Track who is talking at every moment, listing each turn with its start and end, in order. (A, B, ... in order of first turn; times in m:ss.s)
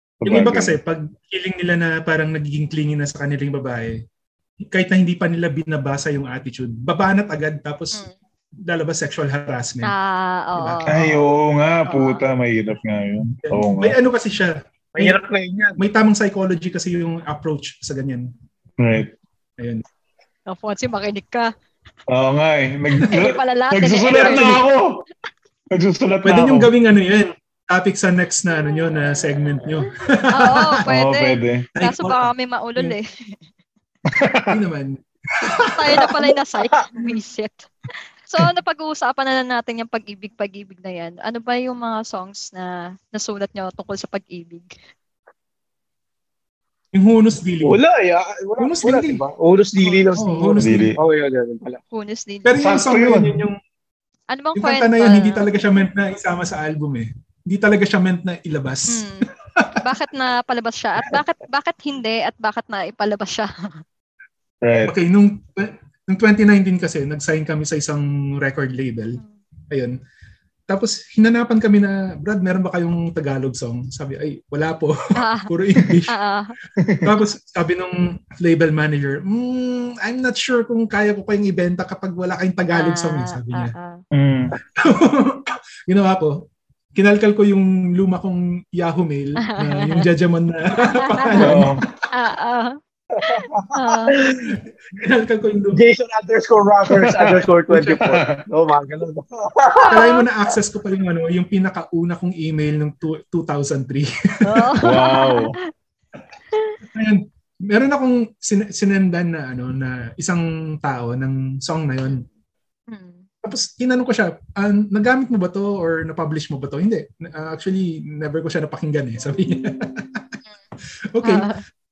0:00.2-0:00.8 A
0:00.2-0:04.0 B
0:04.7-0:08.0 B
0:08.6-0:09.9 B
0:09.8-0:10.9 C
0:10.6-0:11.2 B
0:10.9-0:14.0 A
0:11.9-0:12.2 C
0:13.4-0:15.2 B
0:15.0-0:15.8 D
0:15.8-0:18.3 B
0:18.8-0:19.1 A
0:19.6-0:19.8 B
0:20.5-0:21.5 C
0:22.1-0:25.0 A
0:23.0-0:24.6 C
0:24.1-0:24.6 B
0:25.7-0:26.7 A
0:26.2-0:30.8 B
0:30.3-0:33.4 C
0:30.8-0:31.7 A
0:31.7-0:33.0 B
0:34.1-0:34.5 A
0:34.5-0:36.1 B
0:35.7-0:37.7 C
0:38.2-0:44.7 C
0:46.9-0:47.8 B
0:47.6-0:51.8 D
0:48.6-0:49.2 B
0:50.1-0:50.9 B
0:50.6-0:51.0 A
0:51.9-0:52.6 C
0:52.4-0:53.6 B
0:52.6-0:53.4 A
0:54.3-0:55.5 C
0:54.5-0:59.0 B
0:58.9-0:59.3 C
0:59.8-1:03.5 C
1:04.6-1:04.9 A
1:04.8-1:09.2 B
1:09.7-1:10.0 B
1:10.7-1:14.9 B
1:15.2-1:15.5 C
1:15.5-1:16.1 B
1:16.1-1:16.5 C
1:16.8-1:17.1 A
1:17.0-1:23.7 B
1:22.7-1:24.0 C
1:24.1-1:24.5 A
1:24.6-1:26.4 B
1:26.9-1:31.8 B
1:29.4-1:30.1 C
1:31.0-1:31.6 C
1:31.4-1:31.8 A
1:32.1-1:34.2 C
1:33.1-1:34.6 D
1:34.4-1:35.8 B
1:35.7-1:40.1 D
1:36.9-1:38.4 A
1:37.7-1:38.0 B
1:39.8-1:40.3 C
1:39.9-1:44.7 B
1:44.4-1:45.6 C
1:44.8-1:45.5 A
1:46.9-1:52.2 B
1:52.9-1:53.2 C
1:53.4-2:00.3 B
2:01.1-2:01.5 B
2:01.2-2:01.6 C